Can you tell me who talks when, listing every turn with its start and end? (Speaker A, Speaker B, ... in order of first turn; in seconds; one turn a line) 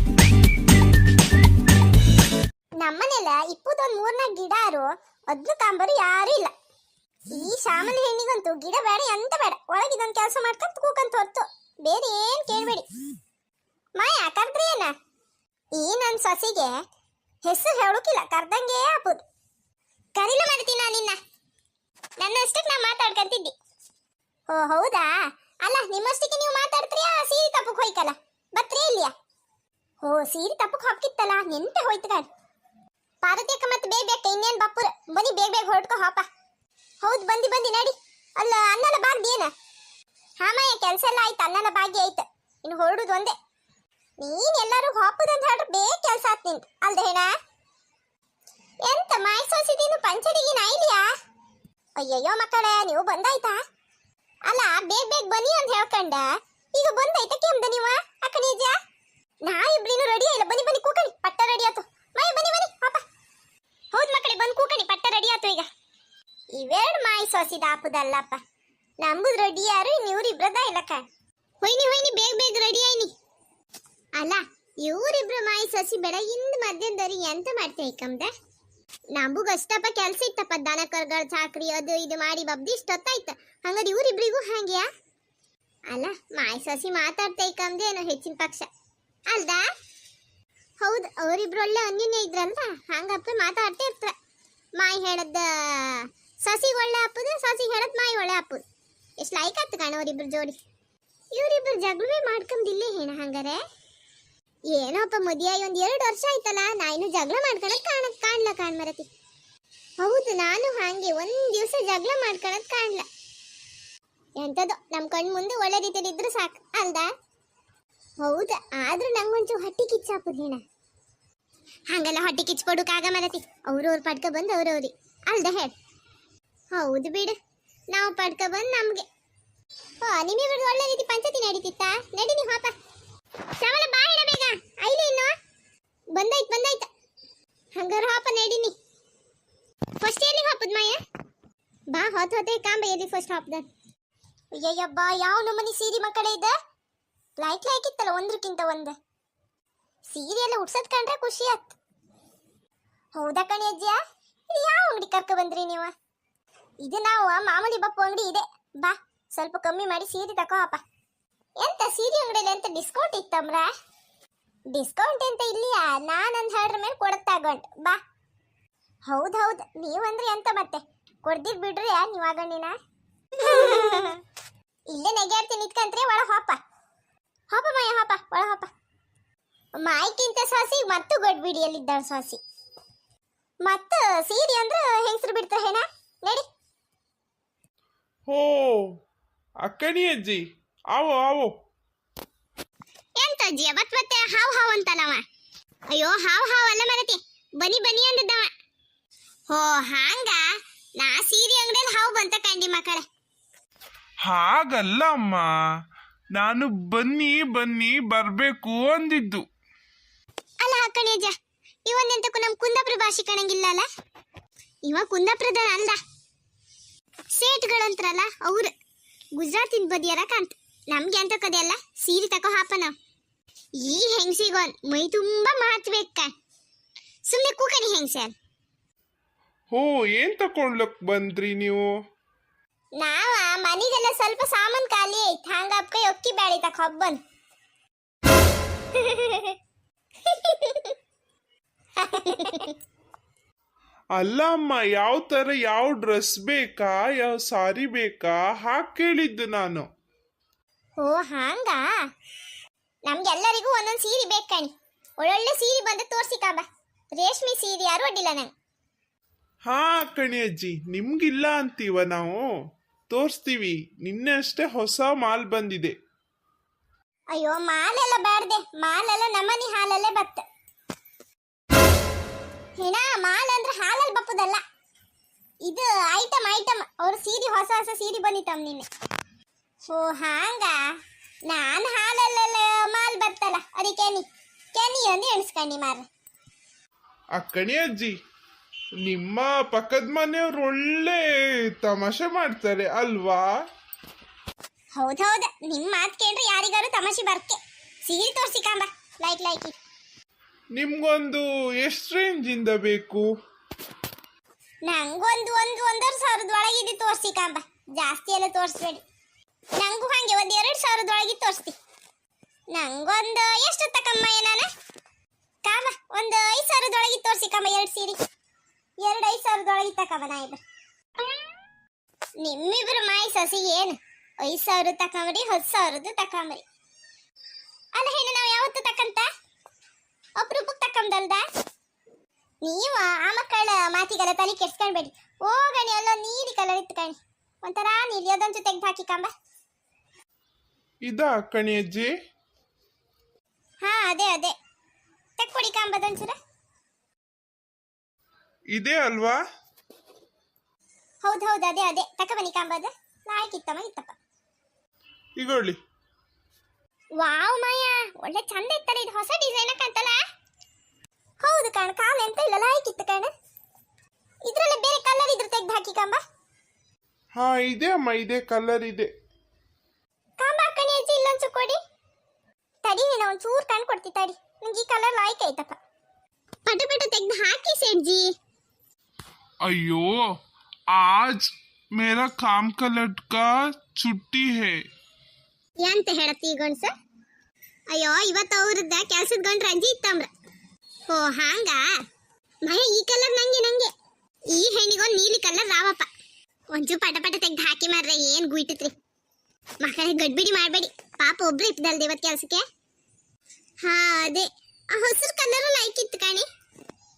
Speaker A: 2.8-6.5
Speaker A: 7.3-12.9
Speaker A: 13.9-14.9
Speaker A: 15.7-16.8
Speaker A: 17.4-19.2
Speaker A: 20.1-21.2
Speaker A: 22.2-23.5
Speaker A: 24.5-29.1
Speaker A: 30.0-32.3
Speaker A: 33.2-36.3
Speaker A: 37.0-39.5
Speaker A: 40.4-43.4
Speaker A: 44.2-47.3
Speaker A: 48.8-51.1
Speaker A: 52.0-53.6
Speaker A: 54.5-58.8
Speaker A: 59.4-63.0
Speaker A: 63.9-65.7
Speaker A: 66.5-68.4
Speaker A: 69.0-71.0
Speaker A: 71.6-73.1
Speaker A: 74.2-78.3
Speaker A: 79.1-84.9
Speaker A: 85.9-88.7
Speaker A: 89.3-89.7
Speaker A: 90.8-94.1
Speaker A: 94.8-98.6
Speaker A: 99.2-100.6
Speaker A: 101.3-103.6
Speaker A: 104.7-109.1
Speaker A: 110.0-113.0
Speaker A: 114.4-117.1
Speaker A: 118.2-120.6
Speaker A: 121.9-125.7
Speaker A: 126.7-127.3
Speaker A: 127.9-129.1
Speaker A: 130.0-132.7
Speaker A: 133.6-135.3
Speaker A: 136.1-136.9
Speaker A: 137.7-138.7
Speaker A: 140.0-141.0
Speaker A: 141.9-143.7
Speaker A: 144.5-146.5
Speaker A: 147.4-148.9
Speaker A: 150.1-151.7
Speaker A: 153.1-154.0
Speaker A: 154.5-155.9
Speaker A: 156.8-160.8
Speaker A: 161.6-163.7
Speaker A: 164.7-168.0
Speaker A: 169.1-172.8
Speaker A: 173.4-174.2
Speaker A: 174.9-176.6
Speaker A: 177.5-178.7
Speaker A: 179.8-182.4
Speaker A: 183.6-186.4
Speaker B: 188.3-188.9
Speaker B: 189.6-190.4
Speaker B: 190.9-191.5
Speaker A: 193.2-195.2
Speaker A: 195.9-198.5
Speaker A: 199.5-203.0
Speaker B: 204.2-205.5
Speaker B: 206.3-209.4
Speaker A: 210.6-211.3
Speaker A: 211.8-213.8
Speaker A: 214.8-216.0
Speaker A: 217.3-218.7
Speaker A: 219.3-222.9
Speaker A: 223.8-226.3
Speaker A: 227.3-228.3
Speaker B: 229.7-231.9
Speaker A: 233.0-237.2
Speaker A: 238.9-239.6
Speaker A: 240.2-240.9
Speaker A: 242.0-242.8
Speaker B: 244.2-249.8
Speaker A: 251.0-251.8
Speaker A: 253.1-258.5
Speaker B: 259.6-262.4
Speaker B: 263.1-265.9
Speaker A: 267.3-270.4
Speaker A: 272.8-274.6
Speaker A: 275.6-278.9
Speaker A: 279.8-280.8
Speaker A: 281.4-286.0
Speaker B: 287.4-288.1
Speaker B: 289.0-293.5
Speaker A: 294.9-299.7
Speaker B: 300.8-303.3
Speaker A: 304.8-309.0
Speaker A: 309.7-311.8
Speaker A: 312.7-314.7
Speaker A: 315.6-318.2
Speaker A: 319.0-320.6
Speaker A: 322.4-326.6
Speaker A: 327.9-329.3
Speaker A: 330.4-331.4
Speaker A: 332.6-339.3
Speaker B: 341.1-342.1
Speaker A: 343.8-344.5
Speaker A: 345.4-346.4
Speaker B: 348.7-349.4
Speaker A: 351.2-354.1
Speaker B: 355.4-355.8
Speaker A: 357.2-360.2
Speaker A: 361.4-363.3
Speaker A: 364.4-366.2
Speaker B: 367.4-369.1
Speaker A: 370.4-371.8
Speaker A: 372.8-375.8
Speaker A: 376.6-378.3
Speaker B: 379.6-380.3
Speaker B: 380.9-384.8
Speaker A: 385.8-386.9
Speaker A: 387.9-390.3
Speaker A: 391.1-391.9
Speaker A: 392.6-393.9
Speaker A: 394.5-396.1
Speaker A: 396.7-398.9
Speaker A: 399.8-402.6
Speaker A: 403.8-406.5